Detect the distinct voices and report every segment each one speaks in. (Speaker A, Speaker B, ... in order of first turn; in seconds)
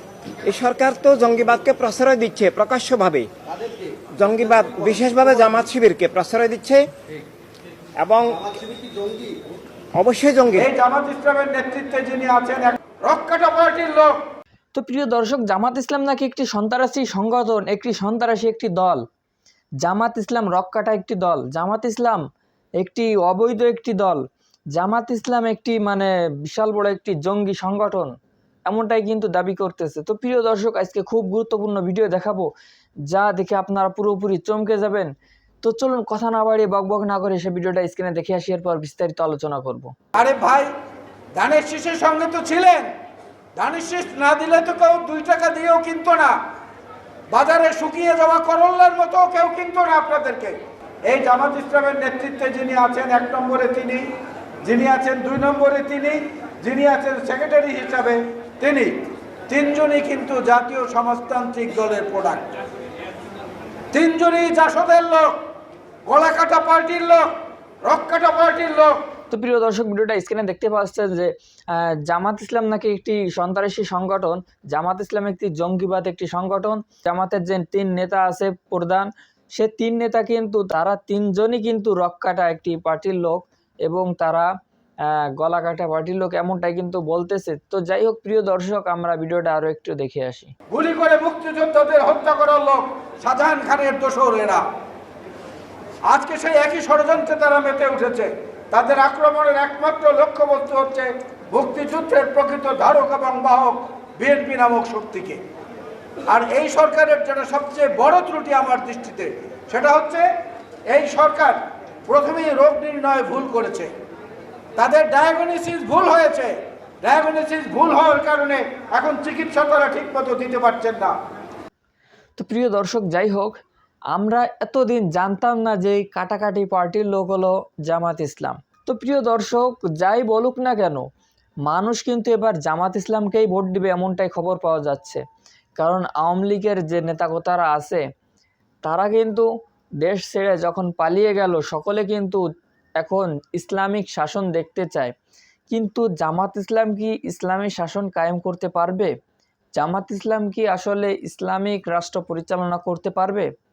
Speaker A: 0.4-3.3, 4.2-6.9, 8.0-8.4, 9.9-10.7
Speaker B: 10.6-14.2, 40.1-40.7, 41.4-42.9, 43.6-46.3, 47.3-54.1, 54.6-58.9, 59.5-62.5, 63.9-65.4, 66.1-67.3, 67.8-69.0, 90.7-94.6, 96.1-105.4, 106.3-110.2, 110.9-113.9, 114.8-121.2
Speaker C: 14.7-19.0, 19.8-22.2, 22.8-24.2, 24.8-28.1, 28.7-32.5, 33.1-35.1, 35.6-39.9, 69.3-84.5, 85.0-90.5, 122.4-123.6, 124.1-131.0, 131.7-135.2, 135.8-138.0, 138.8-139.5, 140.0-142.4, 143.0-145.1, 145.7-149.1, 149.8-153.5